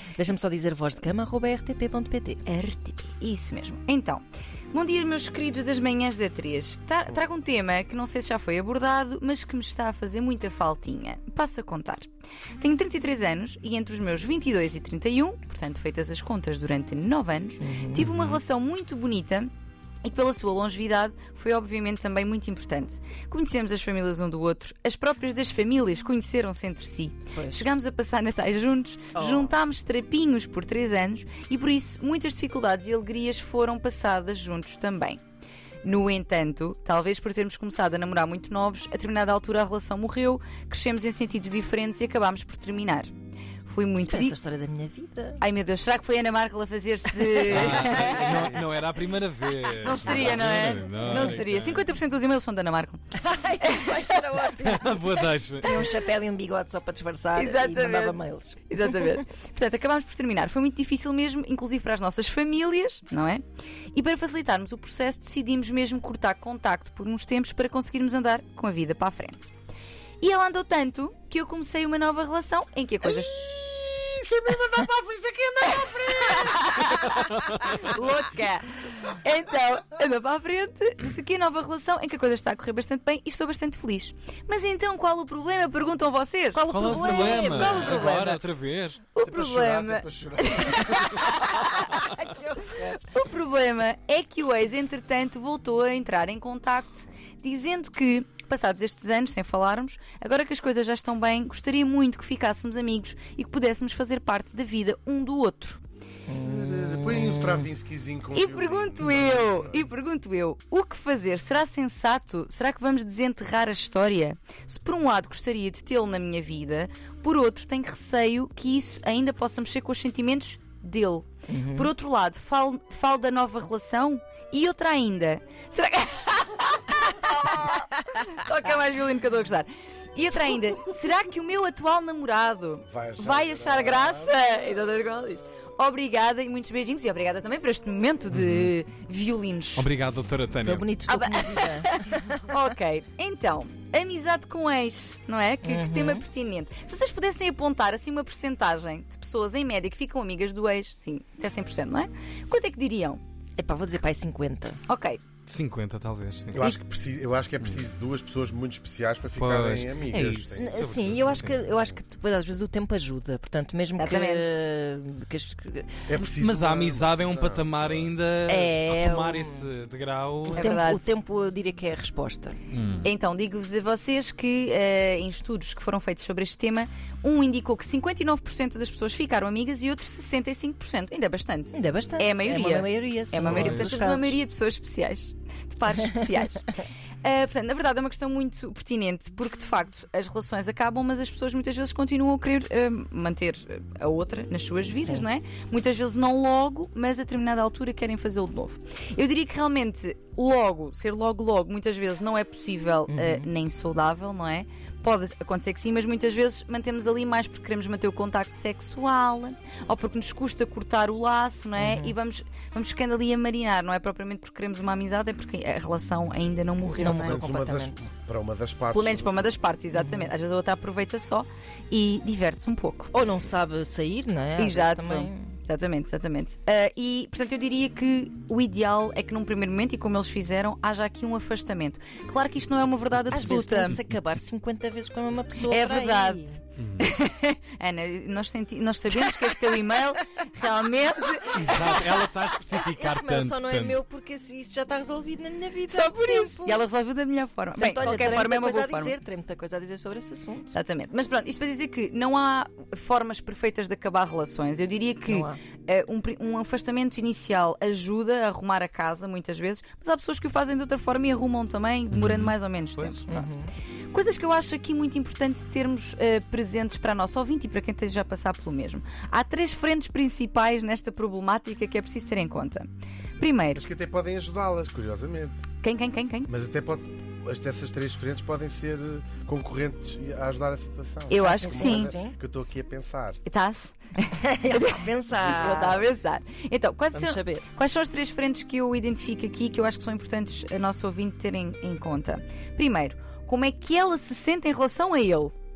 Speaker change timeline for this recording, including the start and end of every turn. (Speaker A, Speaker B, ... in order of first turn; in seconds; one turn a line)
Speaker A: 0.2-2.4
Speaker B: 2.5-12.1
Speaker B: 12.6-19.5
Speaker A: 17.6-18.1
Speaker B: 20.0-35.2
Speaker A: 27.3-27.6
Speaker A: 29.1-29.5
Speaker B: 35.8-43.1
Speaker B: 43.6-44.4
Speaker A: 44.0-45.4
Speaker B: 45.4-48.6
Speaker A: 47.3-48.6
Speaker C: 47.5-51.8
Speaker B: 49.8-53.0
Speaker A: 50.0-50.4
Speaker A: 51.1-51.3
Speaker A: 53.2-59.2
Speaker C: 54.6-55.7
Speaker B: 57.3-69.5
Speaker B: 70.2-73.4
Speaker D: 73.1-77.0
Speaker B: 75.7-88.4
Speaker C: 77.6-77.9
Speaker A: 86.5-88.1
Speaker C: 86.7-89.0
Speaker B: 89.1-105.8
Speaker D: 89.2-91.2
Speaker A: 92.1-92.9
Speaker A: 106.3-107.7
Speaker D: 106.4-109.9
Speaker B: 108.3-139.9
Speaker A: 121.5-121.9
Speaker D: 132.9-134.4
Speaker C: 138.3-138.7
Speaker C: 139.8-140.8
Speaker A: 140.6-142.4
Speaker B: 141.1-153.2
Speaker A: 145.6-146.2
Speaker A: 153.6-154.8
Speaker B: 154.9-155.2
Speaker C: 155.4-156.6
Speaker D: 156.5-160.8
Speaker C: 159.3-161.6
Speaker A: 160.6-166.1
Speaker B: 163.9-164.6
Speaker D: 166.1-168.1
Speaker C: 166.1-170.7
Speaker A: 168.4-169.7
Speaker B: 170.5-171.2
Speaker A: 170.5-172.6
Speaker C: 172.7-173.1
Speaker B: 173.0-186.7
Speaker A: 181.7-184.4
Speaker C: 183.4-184.0
Speaker B: 187.2-217.5
Speaker A: 195.0-195.2
Speaker A: 203.1-203.5
Speaker A: 211.8-212.2
Speaker A: 217.0-218.1
Speaker D: 217.0-219.5
Speaker B: 218.9-223.1
Speaker A: 219.9-220.3
Speaker A: 223.1-225.5
Speaker B: 224.6-234.0
Speaker A: 233.3-236.6
Speaker B: 235.7-236.4
Speaker C: 236.8-237.1
Speaker B: 237.0-242.0
Speaker A: 239.1-239.5
Speaker C: 241.6-244.0
Speaker A: 242.7-246.9
Speaker B: 245.9-249.2
Speaker A: 247.8-250.8
Speaker B: 250.7-263.5
Speaker A: 255.3-255.6
Speaker C: 262.1-263.2
Speaker A: 263.3-263.7
Speaker B: 264.1-273.8
Speaker D: 273.7-275.7
Speaker B: 275.8-276.5
Speaker D: 276.5-283.4
Speaker B: 281.3-282.1
Speaker A: 281.4-282.4
Speaker B: 283.4-295.5
Speaker A: 284.4-286.0
Speaker A: 287.1-287.6